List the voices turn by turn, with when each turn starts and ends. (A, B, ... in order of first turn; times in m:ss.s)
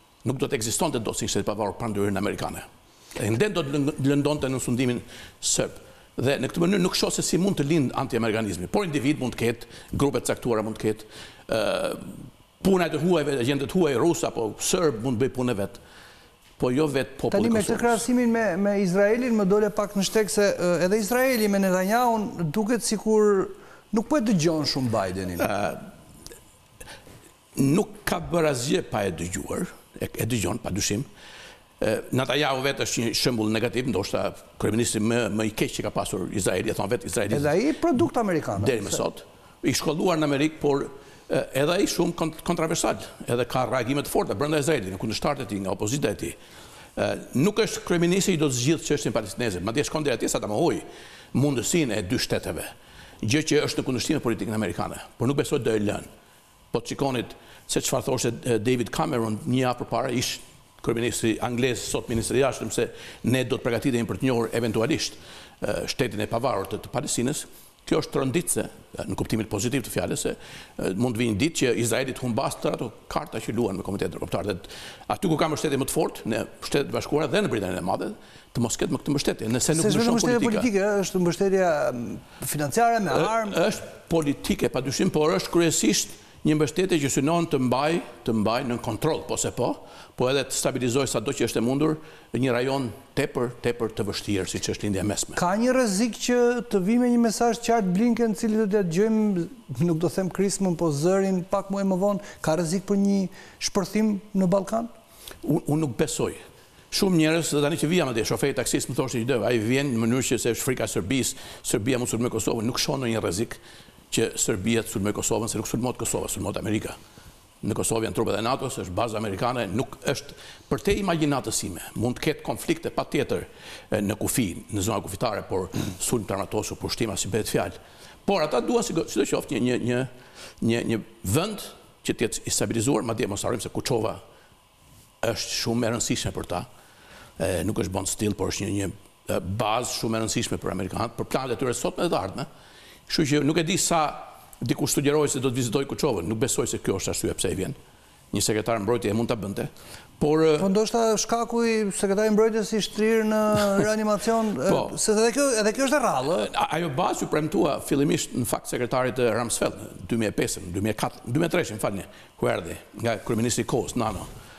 0:00.2-0:15.8 A
0:16.6-0:18.0 A
0:17.3-0:25.5 B
0:25.4-0:25.9 A
0:27.5-0:31.1 A
0:31.8-0:37.5 A
0:37.3-0:39.0 B
0:38.6-0:46.4 A
0:47.0-0:52.7 A
0:53.2-0:56.0 A
0:56.7-1:20.7 A
1:19.7-1:23.6 B
1:23.1-1:35.4 A
1:35.4-1:44.9 B
1:45.4-1:46.4 A
1:46.9-1:57.0 A
1:57.6-2:10.1 A
2:10.6-2:14.2 A
2:15.2-2:16.7 A
2:17.4-2:22.5 A
2:23.1-2:27.8 A
2:28.3-2:30.7 A
2:30.6-2:36.5 B
2:34.6-2:34.9 A
2:36.3-2:44.3 A